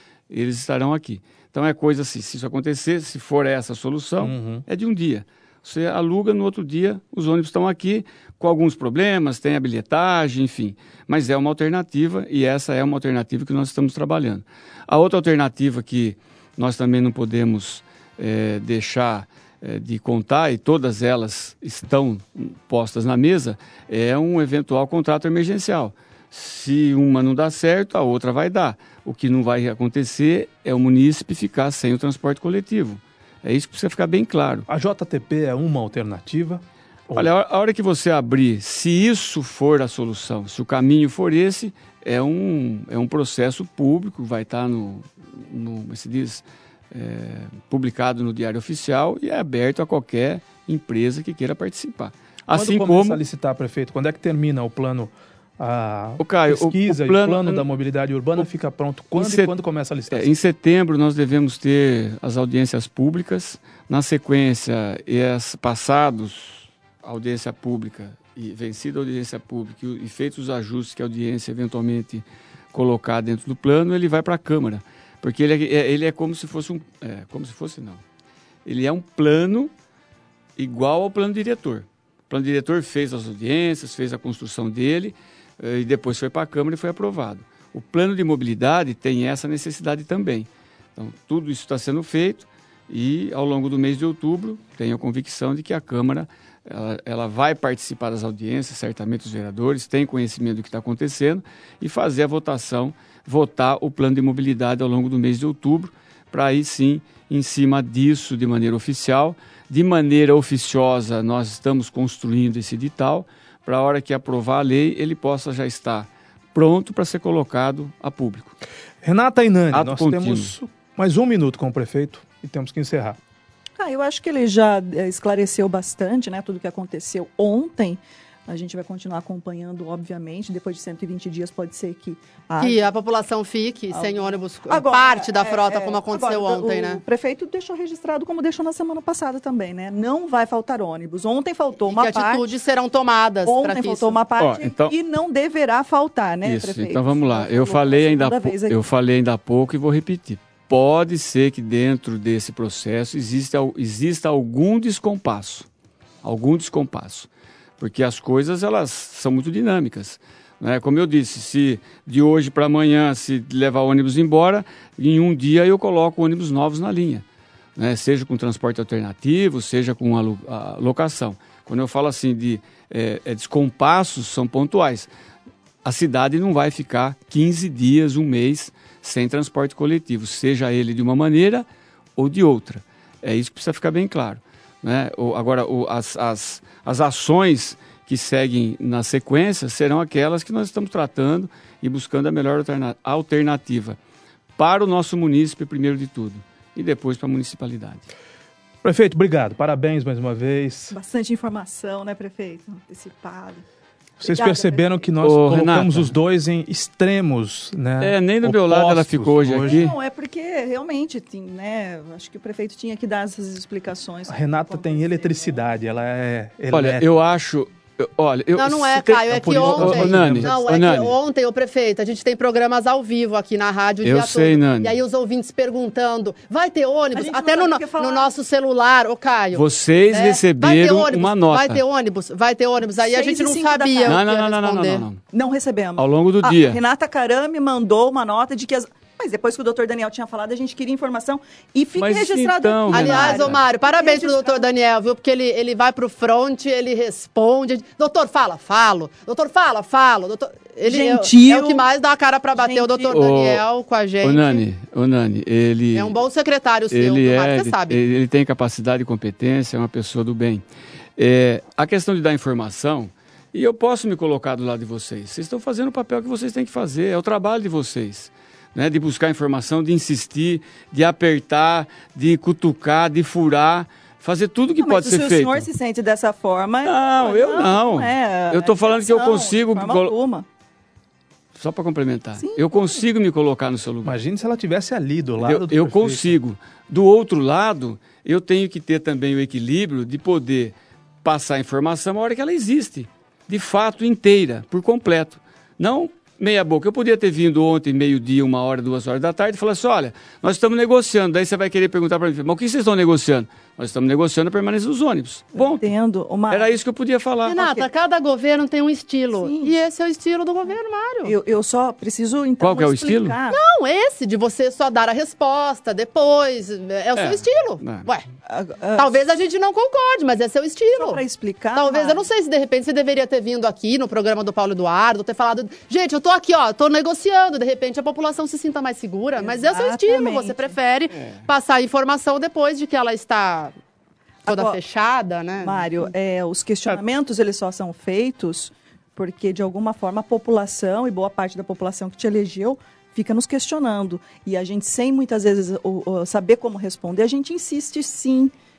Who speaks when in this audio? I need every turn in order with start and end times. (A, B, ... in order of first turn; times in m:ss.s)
0:00.3-0:34.7 A
0:04.2-0:04.6 B
0:34.7-0:37.3 B
0:37.1-0:53.2 A
0:52.5-1:00.3 B
0:56.2-0:57.7 A
0:59.2-0:59.5 A
1:00.1-1:18.0 A
1:18.6-1:19.7 A
1:20.6-1:58.6 A
1:59.0-2:03.2 B
1:59.7-2:00.5 A
2:03.8-2:12.8 C
2:12.6-2:17.0 D
2:13.9-2:22.4 C
2:21.9-2:24.2 D
2:23.4-2:28.8 C
2:24.4-2:24.9 A
2:26.4-2:35.7 A
2:36.2-2:47.2 A
2:47.8-2:55.1 A
2:55.8-3:01.7 A
3:02.2-3:14.0 A
3:14.6-3:18.1 A
3:18.8-3:21.0 B
3:20.9-3:23.6 C
3:24.2-3:29.9 B
3:24.2-3:25.1 C
3:25.2-3:26.1 A
3:28.0-3:29.9 A
3:29.6-3:35.6 C
3:34.3-3:37.2 B
3:36.7-3:41.1 A
3:38.6-3:55.0 D
3:39.3-3:40.6 B
3:44.0-3:44.9 A
3:47.1-3:48.3 C
3:49.5-3:51.8 A
3:53.0-3:54.2 C
3:54.1-3:55.2 A
3:55.3-4:04.7 C
3:56.0-3:56.8 A
4:02.0-4:03.6 A
4:02.9-4:14.6 D
4:10.9-4:11.8 C
4:12.6-4:13.1 C
4:13.1-4:13.6 A
4:14.2-4:16.1 A
4:15.9-4:18.0 D
4:16.9-4:20.6 A
4:21.2-4:35.7 A
4:34.8-4:40.4 C
4:36.8-4:40.2 A
4:41.6-4:44.2 A
4:44.0-4:46.4 B
4:45.4-5:05.8 A
5:05.6-5:06.8 C
5:06.5-5:07.6 A
5:07.5-5:11.4 D
5:07.6-5:07.9 C
5:09.4-5:09.7 C
5:11.2-5:13.6 C
5:12.6-5:13.4 A
5:13.5-5:18.2 D
5:17.2-5:18.1 A
5:18.5-5:19.1 C
5:19.0-5:21.2 D
5:21.0-5:22.2 C
5:21.8-5:33.7 D
5:29.4-5:30.8 C
5:31.1-5:31.4 A
5:34.4-5:34.8 C
5:34.5-5:36.1 D
5:35.6-5:48.5 C